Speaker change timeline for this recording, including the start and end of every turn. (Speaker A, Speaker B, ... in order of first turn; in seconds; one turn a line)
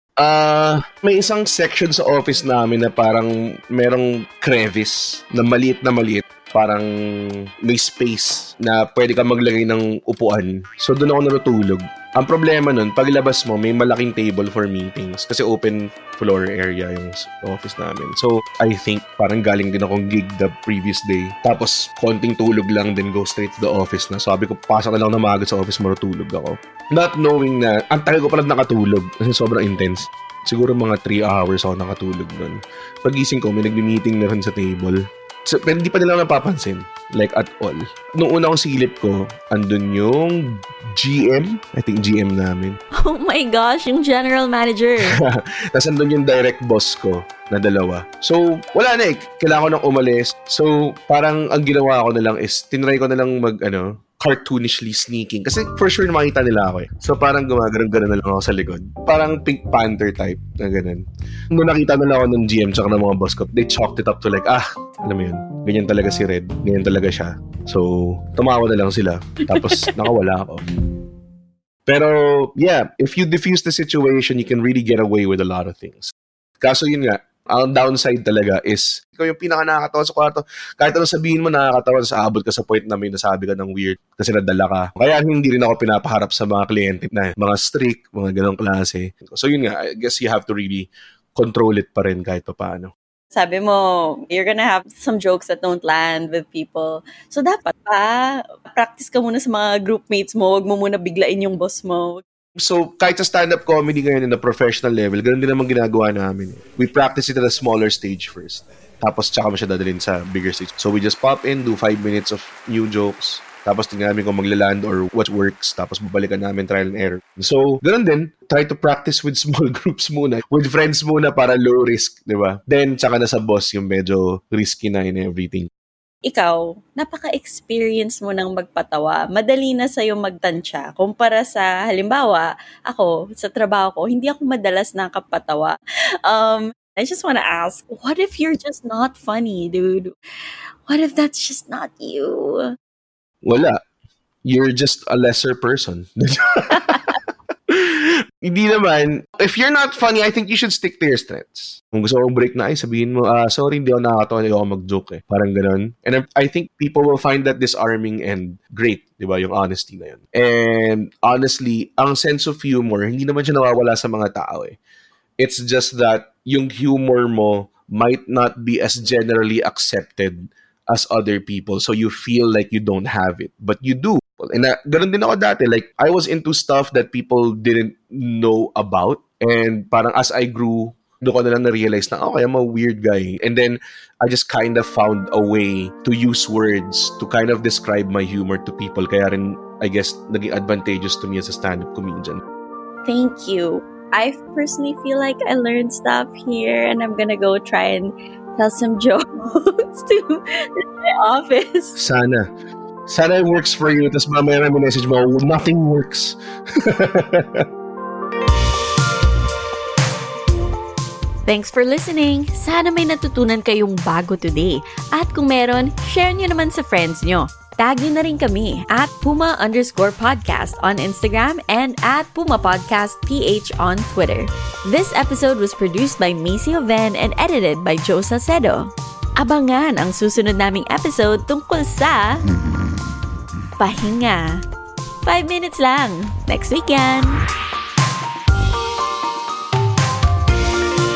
Speaker A: 0.2-42.8
Speaker B: 43.0-45.2
Speaker A: 45.1-70.7
Speaker A: 71.9-92.9
Speaker B: 93.3-102.2
Speaker A: 102.6-125.7
Speaker B: 126.2-135.8
Speaker B: 136.2-140.1
Speaker B: 140.9-142.7
Speaker A: 143.4-143.8
Speaker A: 144.4-147.2
Speaker A: 147.7-164.8
Speaker A: 165.4-192.4
Speaker B: 193.1-202.0
Speaker A: 202.0-202.5
Speaker A: 203.1-207.7
Speaker B: 211.5-232.4
Speaker B: 233.8-234.6
Speaker B: 235.2-237.4